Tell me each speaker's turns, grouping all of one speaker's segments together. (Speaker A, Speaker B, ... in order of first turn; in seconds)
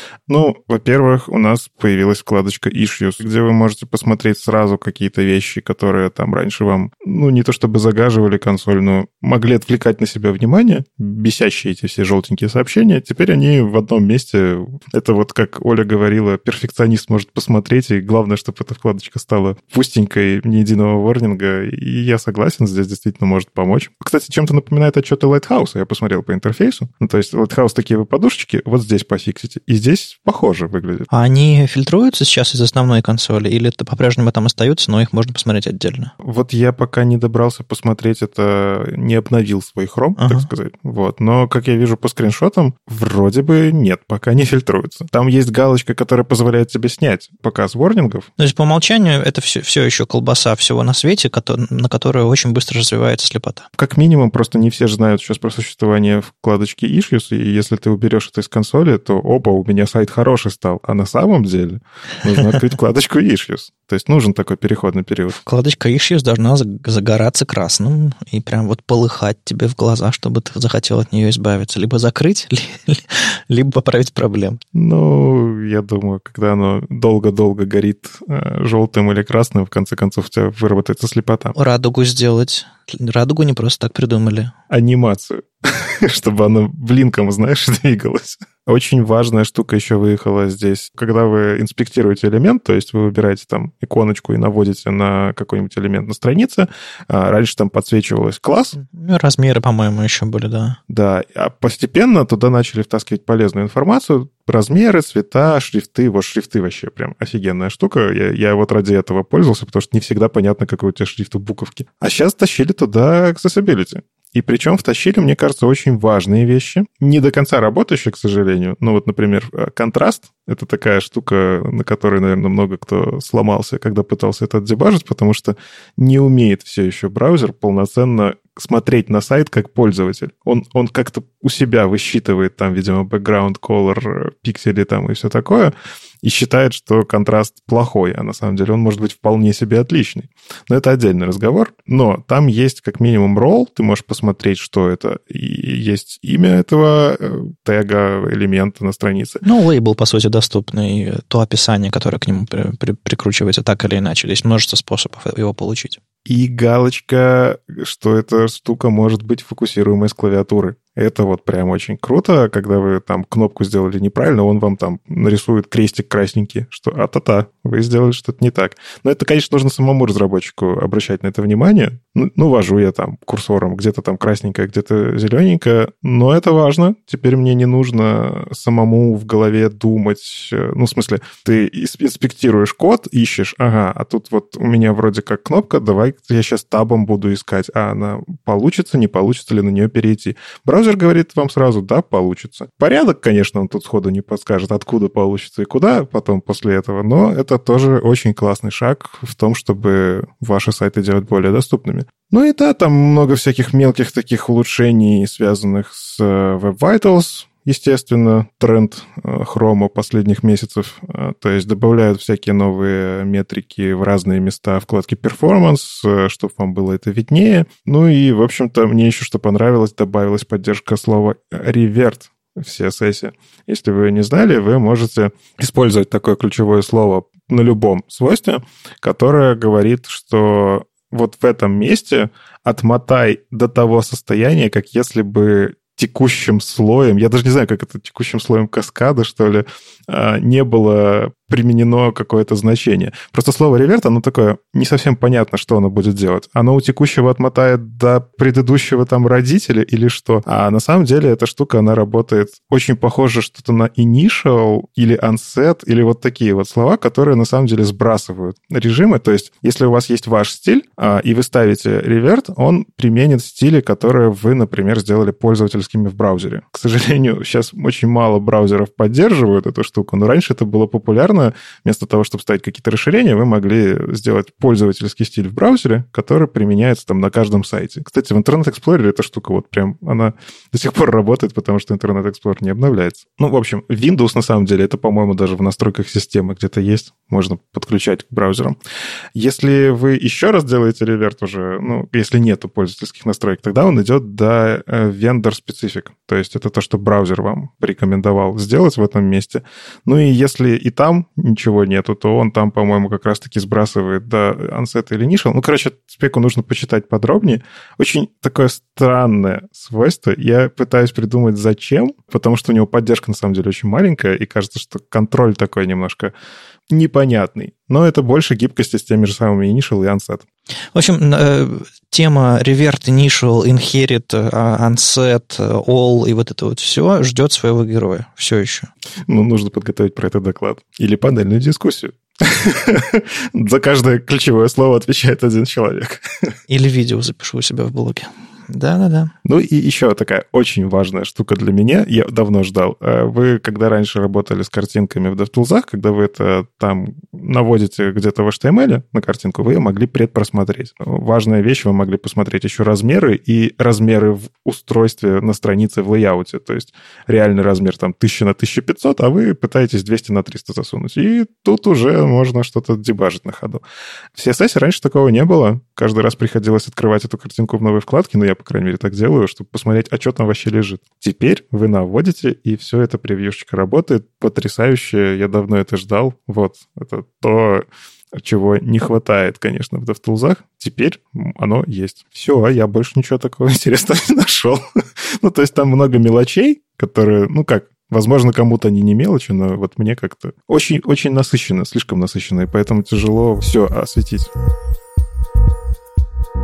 Speaker A: 0.3-31.1, 36.2-48.3, 53.8-65.4, 74.7-81.5, 84.7-98.8, 100.9-149.4, 156.3-288.8, 289.4-316.3, 316.9-320.4, 329.3-336.2, 339.4-363.8, 364.4-384.8, 385.4-394.5
Speaker B: 31.1-36.1, 40.2-40.5, 48.4-53.7, 65.3-74.6, 81.5-84.5, 98.8-100.8, 149.4-156.0, 320.9-328.9, 336.7-339.3